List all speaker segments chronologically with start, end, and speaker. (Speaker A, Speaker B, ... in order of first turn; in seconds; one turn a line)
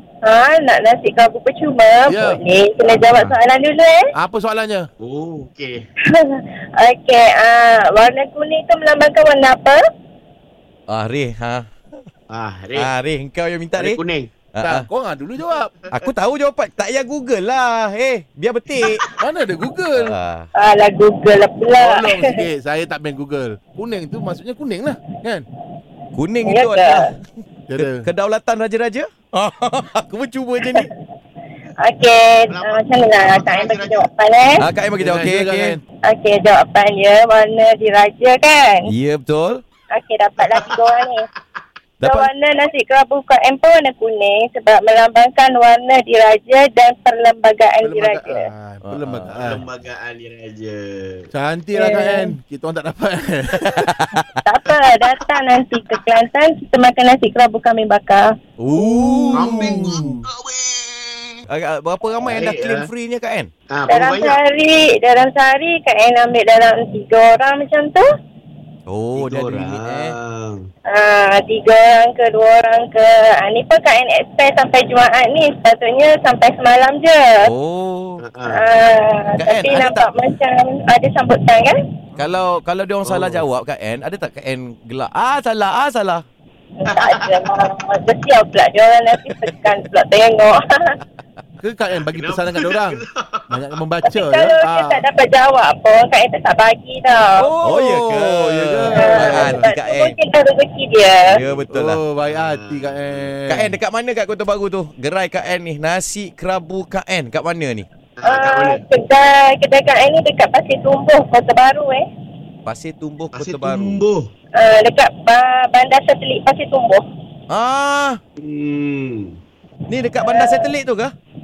Speaker A: 0.2-4.1
Speaker B: 2.0-2.4
Speaker B: 4.1-4.9
Speaker C: 5.0-5.8
Speaker A: 6.1-9.8
Speaker D: 10.9-11.7
Speaker C: 12.3-12.9
Speaker D: 12.7-14.0
Speaker C: 13.8-14.3
Speaker D: 14.5-14.9
Speaker B: 14.6-15.7
Speaker D: 15.9-19.0
Speaker B: 19.2-20.1
Speaker D: 19.9-20.5
Speaker A: 20.6-22.4
Speaker B: 21.8-25.5
Speaker D: 26.1-27.1
Speaker A: 26.4-27.1
Speaker B: 27.7-28.1
Speaker D: 27.8-30.9
Speaker A: 31.8-34.6
Speaker C: 32.5-34.1
Speaker D: 34.6-35.8
Speaker B: 35.0-35.8
Speaker A: 36.1-38.9
Speaker D: 38.9-39.6
Speaker A: 39.9-41.3
Speaker C: 40.4-41.1
Speaker D: 42.0-42.3
Speaker A: 42.0-48.5
Speaker B: 47.8-49.6
Speaker D: 48.9-49.5
Speaker C: 49.4-51.3
Speaker B: 51.3-53.9
Speaker A: 51.7-52.3
Speaker D: 53.5-54.3
Speaker A: 54.4-58.3
Speaker B: 58.7-60.1
Speaker D: 58.7-60.0
Speaker C: 59.3-61.3
Speaker D: 61.5-63.5
Speaker C: 62.2-62.9
Speaker C: 63.7-64.4
Speaker A: 63.9-68.0
Speaker D: 68.9-70.1
Speaker C: 69.1-70.6
Speaker A: 70.9-77.5
Speaker D: 77.4-78.2
Speaker C: 78.2-78.7
Speaker A: 78.5-81.8
Speaker D: 79.4-80.2
Speaker D: 82.2-86.2
Speaker B: 83.0-83.4
Speaker A: 86.8-91.0
Speaker C: 87.0-87.4
Speaker B: 91.6-95.0
Speaker C: 91.9-93.5
Speaker A: 94.1-97.5
Speaker B: 97.4-99.7
Speaker D: 97.6-100.1
Speaker A: 98.9-101.4
Speaker C: 101.3-101.7
Speaker D: 101.3-102.0
Speaker B: 101.7-103.7
Speaker C: 102.2-103.3
Speaker D: 103.5-107.9
Speaker C: 108.2-108.8
Speaker A: 108.2-112.0
Speaker D: 112.6-114.0
Speaker C: 113.3-114.3
Speaker A: 114.6-117.0
Speaker D: 117.5-118.2
Speaker C: 118.4-119.4
Speaker D: 119.9-121.1
Speaker A: 120.2-120.6